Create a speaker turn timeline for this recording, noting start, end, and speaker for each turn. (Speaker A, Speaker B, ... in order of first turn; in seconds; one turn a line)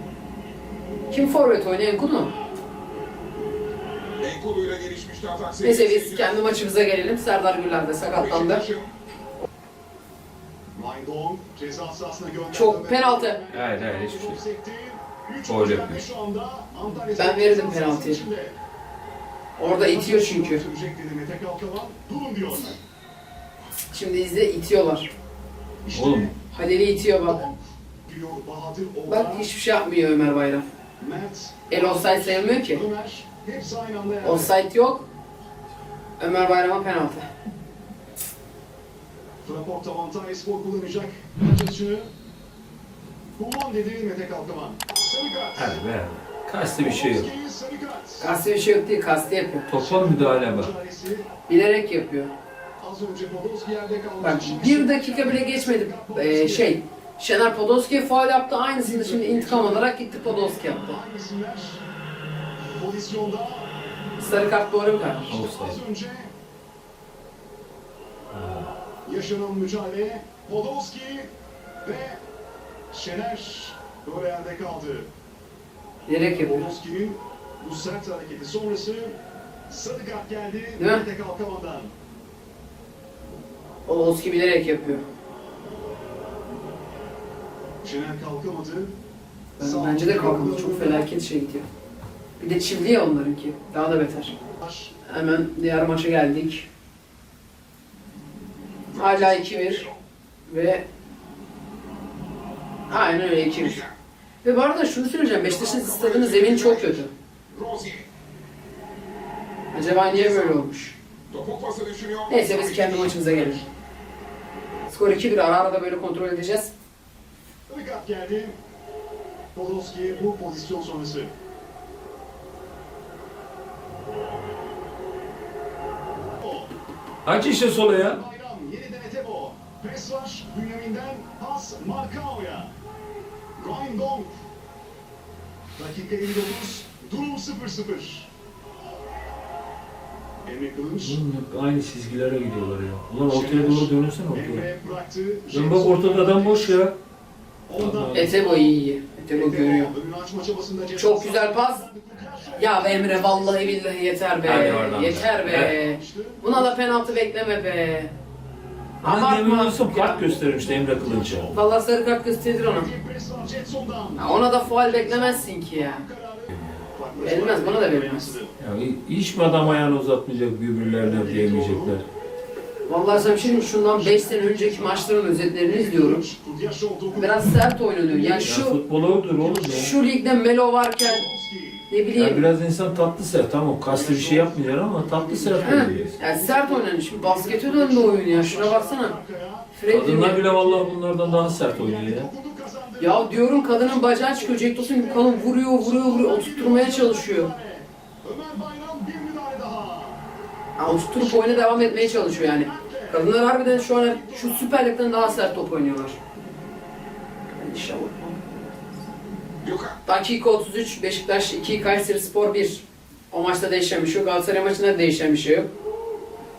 Speaker A: 1.1-2.3
Speaker B: 4.2-6.5
Speaker A: 5.6-8.7
Speaker B: 8.0-8.9
Speaker C: 10.7-18.6
Speaker A: 12.5-13.4
Speaker D: 13.5-14.4
Speaker D: 15.4-16.1
Speaker A: 17.1-18.2
Speaker A: 19.6-20.6
Speaker C: 19.8-22.7
Speaker A: 23.9-25.1
Speaker C: 25.8-26.3
Speaker D: 25.9-26.3
Speaker A: 26.4-27.5
Speaker C: 27.2-29.5
Speaker A: 29.1-30.6
Speaker C: 31.0-34.5
Speaker A: 31.7-32.8
Speaker A: 34.2-35.0
Speaker A: 36.2-37.2
Speaker C: 39.4-42.1
Speaker C: 43.4-45.8
Speaker D: 45.5-47.3
Speaker C: 46.8-48.4
Speaker A: 48.2-49.7
Speaker D: 49.7-50.7
Speaker C: 49.8-51.3
Speaker A: 51.5-52.3
Speaker C: 52.8-56.8
Speaker A: 54.2-61.0
Speaker C: 58.8-61.8
Speaker C: 62.6-63.7
Speaker A: 64.2-65.4
Speaker D: 65.3-65.8
Speaker C: 65.3-66.3
Speaker D: 68.3-68.7
Speaker C: 69.0-71.3
Speaker C: 71.8-72.2
Speaker C: 72.9-75.1
Speaker A: 76.1-76.7
Speaker C: 76.3-81.9
Speaker A: 80.8-81.1
Speaker A: 83.9-85.0
Speaker C: 87.8-89.0
Speaker A: 89.6-91.7
Speaker C: 89.6-91.1
Speaker A: 92.4-94.3
Speaker C: 94.6-94.9
Speaker A: 95.0-96.7
Speaker B: 98.9-100.0
Speaker A: 99.0-99.9
Speaker A: 100.5-100.8
Speaker A: 102.9-103.8
Speaker B: 103.6-103.9
Speaker A: 104.4-107.1
Speaker B: 105.4-108.1
Speaker A: 109.7-111.0
Speaker B: 110.1-110.6
Speaker B: 111.3-113.7
Speaker A: 112.3-113.6
Speaker A: 114.9-116.7
Speaker C: 117.7-118.6
Speaker C: 119.5-121.3
Speaker C: 126.4-126.7
Speaker D: 127.2-128.2
Speaker C: 128.0-132.7
Speaker C: 133.6-134.4
Speaker C: 135.8-138.3
Speaker C: 140.4-141.2
Speaker D: 141.0-144.7
Speaker C: 143.3-146.8
Speaker D: 145.5-147.0
Speaker C: 147.7-148.8
Speaker D: 147.8-148.3
Speaker A: 148.1-149.9
Speaker C: 149.3-153.9
Speaker A: 150.9-151.8
Speaker A: 152.6-158.1
Speaker D: 154.4-155.8
Speaker C: 155.6-157.1
Speaker A: 159.0-160.3
Speaker D: 159.0-161.5
Speaker C: 160.5-161.6
Speaker A: 161.5-162.9
Speaker C: 162.7-168.5
Speaker A: 164.2-166.1
Speaker D: 166.5-166.8
Speaker A: 167.2-168.4
Speaker D: 168.6-172.1
Speaker C: 171.0-172.0
Speaker A: 172.9-176.3
Speaker C: 173.1-177.6
Speaker A: 177.1-178.8
Speaker C: 178.1-178.5
Speaker D: 178.4-180.0
Speaker C: 179.2-179.8
Speaker A: 179.7-181.3
Speaker C: 181.0-181.9
Speaker A: 181.9-182.5
Speaker D: 182.1-186.2
Speaker C: 183.9-189.7
Speaker A: 185.6-189.2
Speaker A: 189.7-190.4
Speaker D: 189.9-192.3
Speaker C: 190.5-200.2
Speaker A: 193.0-197.5
Speaker A: 200.8-206.2
Speaker C: 201.2-205.7
Speaker A: 207.5-208.7
Speaker B: 209.6-210.0
Speaker A: 210.1-215.7